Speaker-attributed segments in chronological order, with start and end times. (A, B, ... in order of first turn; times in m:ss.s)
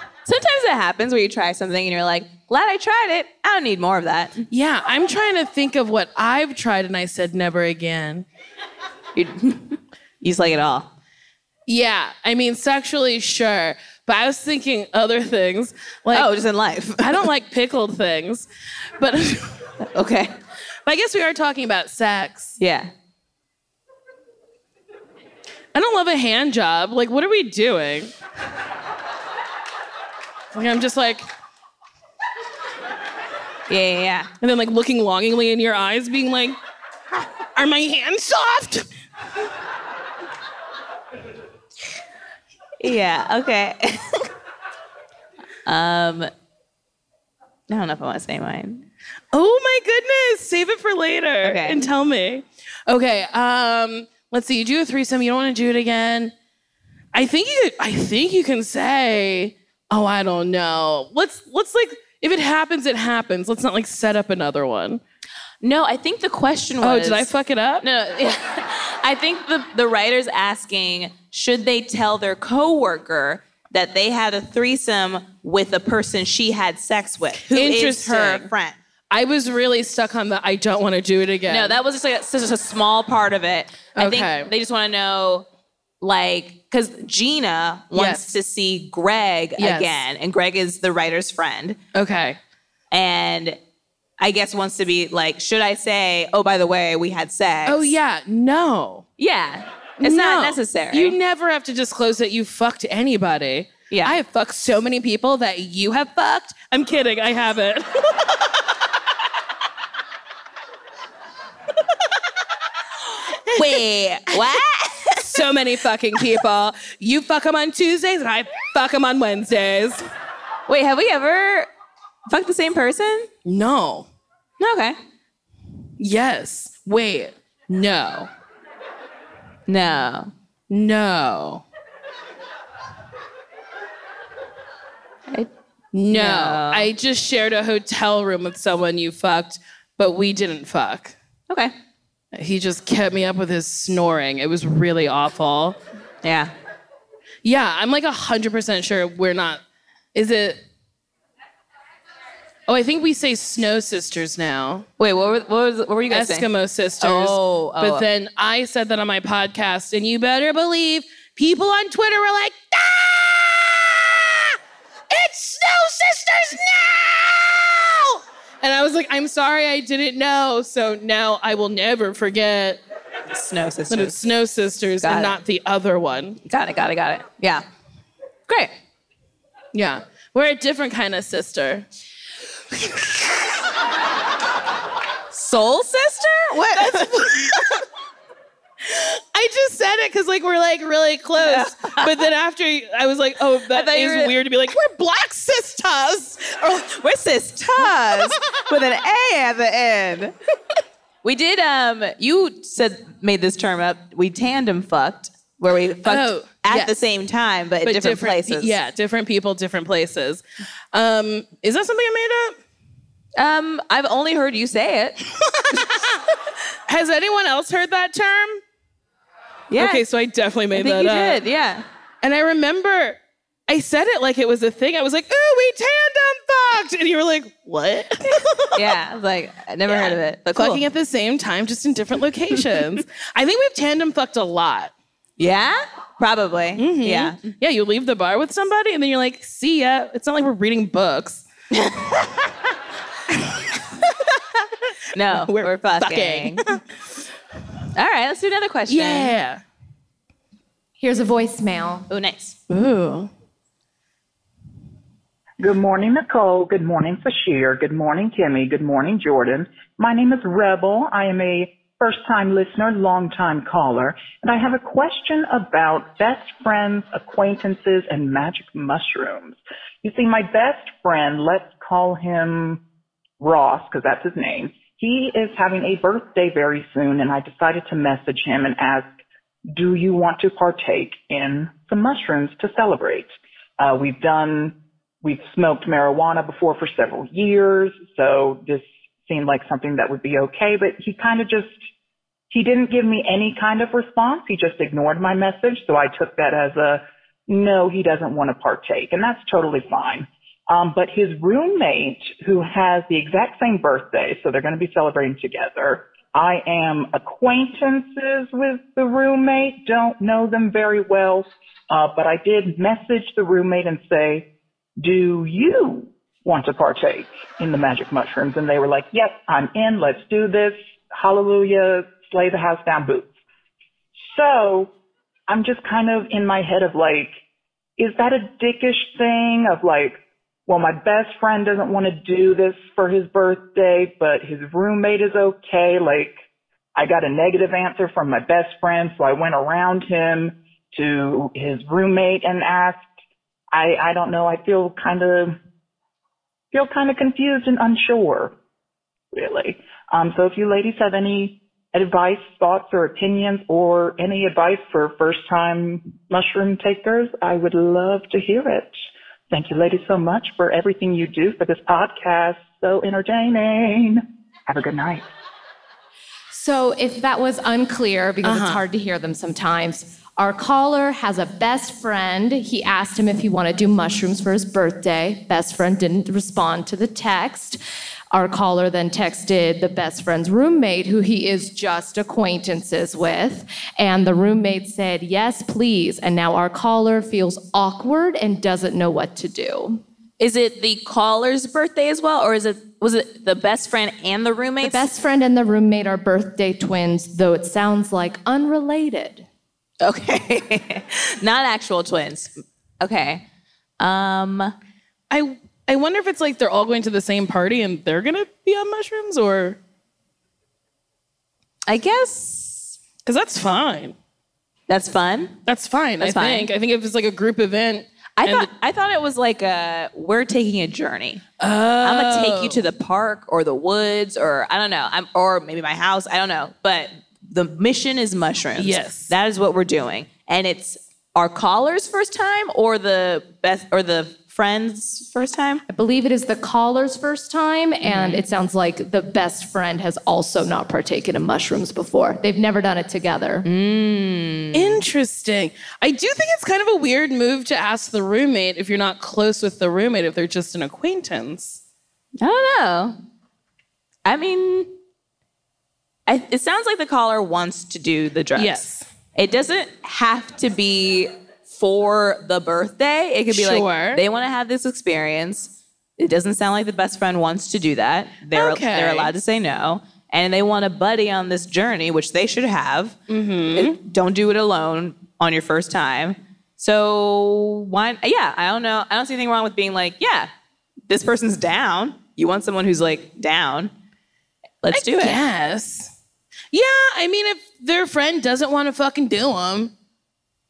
0:00.2-0:04.4 A
0:04.5-0:08.3 B
0:09.2-0:10.9 A
0:11.7-0:16.3 B
0:16.1-0:17.3 A
0:17.0-0:18.5 B
0:19.0-0:19.6 B
0:19.8-0:20.3 A
0:20.9-0:22.6 B
0:22.6-0:22.9 A
0:25.7-0:28.1 B
0:30.5-0:31.3 B
0:33.7-0:34.3 A
0:34.4-0:36.6 B
0:37.6-0:38.9 B
0:42.8-0:44.2 A
0:45.7-0:46.3 A
0:47.7-0:48.9 A
0:49.3-0:56.3 B
0:51.4-0:51.9 A
0:57.1-1:05.0 B
1:05.6-1:18.8 A
1:06.8-1:07.8 B
1:17.4-1:18.5 B
1:19.1-1:21.7 B
1:21.5-1:25.5 A
1:24.0-1:24.5 B
1:26.0-1:31.8 A
1:27.9-1:28.3 B
1:29.6-1:30.0 B
1:31.9-1:32.4 B
1:32.9-1:33.6 A
1:34.2-1:37.9 A
1:37.7-1:39.1 B
1:39.2-1:41.2 A
1:40.0-1:48.2 B
1:43.9-1:44.2 A
1:53.5-1:53.8 B
1:53.5-1:55.5 A
1:55.3-2:00.0 B
2:00.7-2:01.7 A
2:02.3-2:03.3 A
2:03.5-2:04.1 B
2:04.6-2:05.0 A
2:06.0-2:08.3 B
2:09.7-2:10.3 A
2:10.7-2:11.6 B
2:15.9-2:21.2 B
2:16.1-2:16.9 A
2:22.3-2:25.8 B
2:26.2-2:26.5 A
2:27.4-2:29.6 B
2:30.1-2:30.6 B
2:32.7-2:34.9 B
2:35.0-2:36.5 A
2:36.1-2:44.6 B
2:37.0-2:38.1 A
2:45.1-2:52.8 B
2:53.3-2:54.3 A
2:53.9-2:56.4 B
2:55.0-2:55.4 A
2:56.4-2:57.6 A
2:58.5-2:58.7 A
2:59.7-3:01.9 B
3:02.8-3:03.3 B
3:05.3-3:07.6 A
3:06.7-3:07.6 B
3:08.8-3:16.9 B
3:11.4-3:12.1 A
3:13.7-3:14.4 A
3:16.8-3:20.3 A
3:17.9-3:18.4 B
3:21.2-3:28.8 A
3:26.0-3:27.0 B
3:27.8-3:32.6 B
3:33.4-3:35.2 A
3:35.6-3:36.2 B
3:36.9-3:38.6 B
3:39.7-3:40.0 A
3:39.8-3:41.4 B
3:40.7-3:41.8 A
3:42.2-3:43.2 B
3:43.7-3:48.8 B
3:48.8-3:50.8 A
3:49.9-3:54.9 B
3:55.4-3:57.5 A
3:56.8-4:01.5 B
4:01.8-4:02.1 A
4:05.1-4:06.6 A
4:05.3-4:06.8 B
4:08.0-4:09.3 A
4:08.9-4:09.6 B
4:11.0-4:12.1 C
4:12.1-4:12.6 A
4:12.7-4:13.3 B
4:15.6-4:32.8 D
4:33.4-4:39.1 D
4:39.7-4:51.8 D
4:52.5-5:14.5 D
5:15.0-5:23.3 D
5:24.2-5:24.9 D
5:25.5-5:27.3 D
5:28.0-5:36.4 D
5:37.0-5:43.1 D
5:43.7-5:45.6 D
5:46.7-5:48.5 D
5:49.3-6:05.3 D
6:06.5-6:17.8 C
6:08.4-6:08.8 B
6:18.3-6:30.0 C
6:30.4-6:35.1 A
6:34.8-6:39.5 C
6:40.0-6:43.4 A
6:44.0-6:44.7 A
6:45.3-6:49.8 B
6:51.9-6:53.0 A
6:53.2-6:54.2 B
6:54.9-6:55.6 A
6:55.7-6:58.7 B
6:56.2-6:56.7 A
6:58.4-7:01.4 A
7:01.6-7:02.8 B
7:02.0-7:15.8 A
7:08.8-7:09.3 B
7:15.9-7:23.7 C
7:18.0-7:18.4 B
7:23.6-7:25.0 A
7:24.7-7:31.8 B
7:32.4-7:33.2 A
7:34.2-7:34.9 A
7:36.3-7:53.2 A
7:38.6-7:39.1 B
7:43.5-7:44.2 B
7:48.5-7:49.3 B
7:53.3-7:54.0 B
7:53.7-8:00.5 A
8:01.1-8:03.9 A
8:04.8-8:05.4 A
8:04.9-8:06.1 B
8:06.7-8:09.9 B